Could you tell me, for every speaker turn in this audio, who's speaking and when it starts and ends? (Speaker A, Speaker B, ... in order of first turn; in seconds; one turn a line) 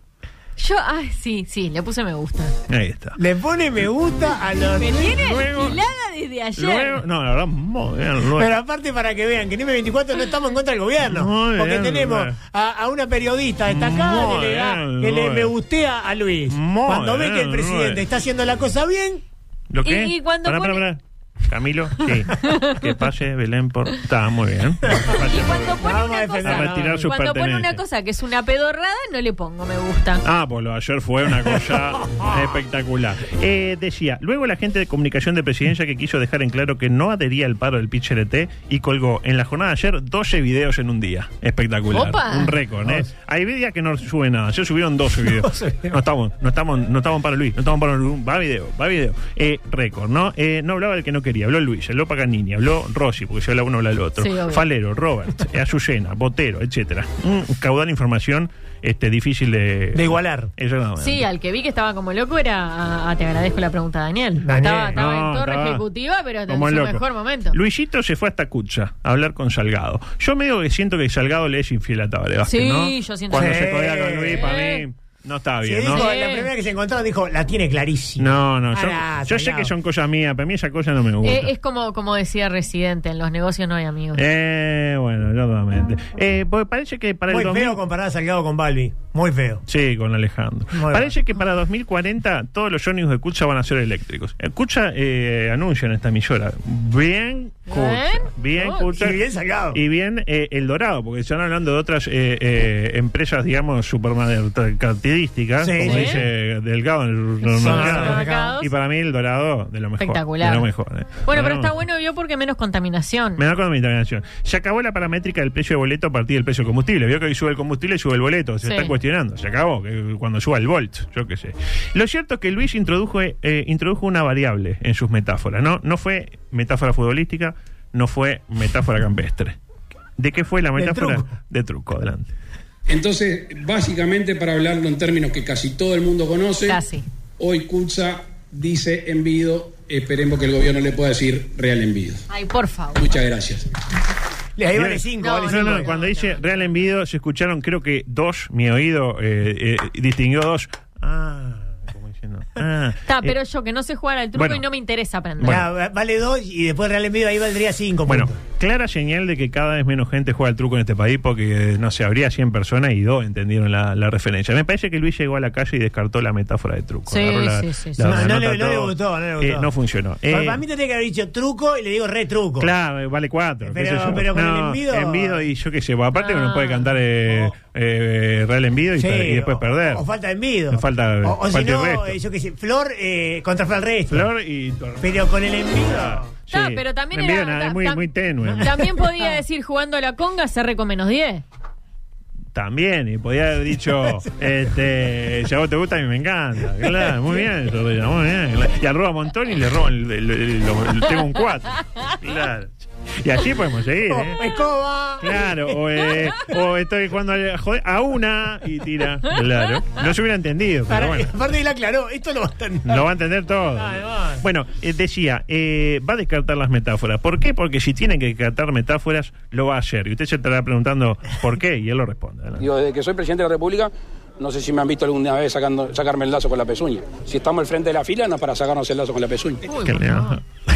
Speaker A: 0.6-2.5
Speaker B: 2.7-3.2
Speaker C: 3.2-5.2
Speaker A: 4.8-7.0
Speaker B: 5.2-5.8
Speaker B: 6.6-8.5
Speaker C: 8.3-19.2
Speaker B: 11.0-12.3
Speaker B: 13.7-15.5
Speaker B: 16.5-18.0
Speaker B: 19.7-25.8
Speaker A: 19.8-20.8
Speaker A: 22.2-22.8
Speaker A: 25.1-30.2
Speaker C: 25.8-27.1
Speaker B: 26.4-27.8
Speaker B: 30.2-61.2
Speaker C: 32.0-32.3
Speaker A: 41.9-42.5
Speaker C: 45.2-46.0
Speaker A: 54.2-54.6
Speaker C: 59.9-60.5
Speaker A: 61.0-67.5
Speaker C: 64.4-65.0
Speaker B: 64.9-65.8
Speaker B: 66.5-76.1
Speaker A: 72.4-73.7
Speaker C: 73.3-74.5
Speaker A: 74.3-74.8
Speaker C: 75.6-79.7
Speaker A: 75.9-76.5
Speaker B: 78.2-81.5
Speaker A: 81.2-84.2
Speaker B: 84.1-87.8
Speaker C: 87.3-89.6
Speaker B: 89.7-99.2
Speaker C: 90.7-91.1
Speaker A: 97.7-98.8
Speaker C: 98.9-99.8
Speaker B: 99.7-111.7
Speaker C: 105.6-106.2
Speaker A: 105.8-106.2
Speaker A: 107.4-108.7
Speaker C: 107.5-108.5
Speaker A: 110.0-110.7
Speaker A: 111.2-113.4
Speaker B: 113.4-129.6
Speaker A: 118.6-118.9
Speaker B: 130.2-132.3
Speaker C: 130.8-131.3
Speaker D: 132.9-136.8
Speaker A: 136.6-137.0
Speaker D: 137.4-142.2
Speaker A: 142.3-143.1
Speaker D: 142.9-143.7
Speaker C: 144.6-145.9
Speaker B: 144.7-153.3
Speaker A: 145.2-146.4
Speaker A: 153.1-155.7
Speaker B: 154.3-154.6
Speaker C: 155.4-158.4
Speaker B: 158.1-170.6
Speaker A: 167.1-168.1
Speaker C: 168.0-169.7
Speaker C: 170.3-172.7
Speaker B: 172.6-180.0
Speaker C: 173.6-175.4
Speaker A: 176.1-176.9
Speaker C: 179.0-184.3
Speaker B: 180.7-182.2
Speaker B: 184.1-188.7
Speaker C: 185.0-186.3
Speaker A: 186.5-191.4
Speaker B: 192.5-204.4
Speaker C: 204.1-206.1
Speaker B: 205.2-211.3
Speaker C: 210.9-213.1
Speaker B: 212.8-222.6
Speaker C: 213.8-214.4
Speaker D: 222.6-229.7
Speaker A: 229.7-230.4
Speaker B: 229.8-230.4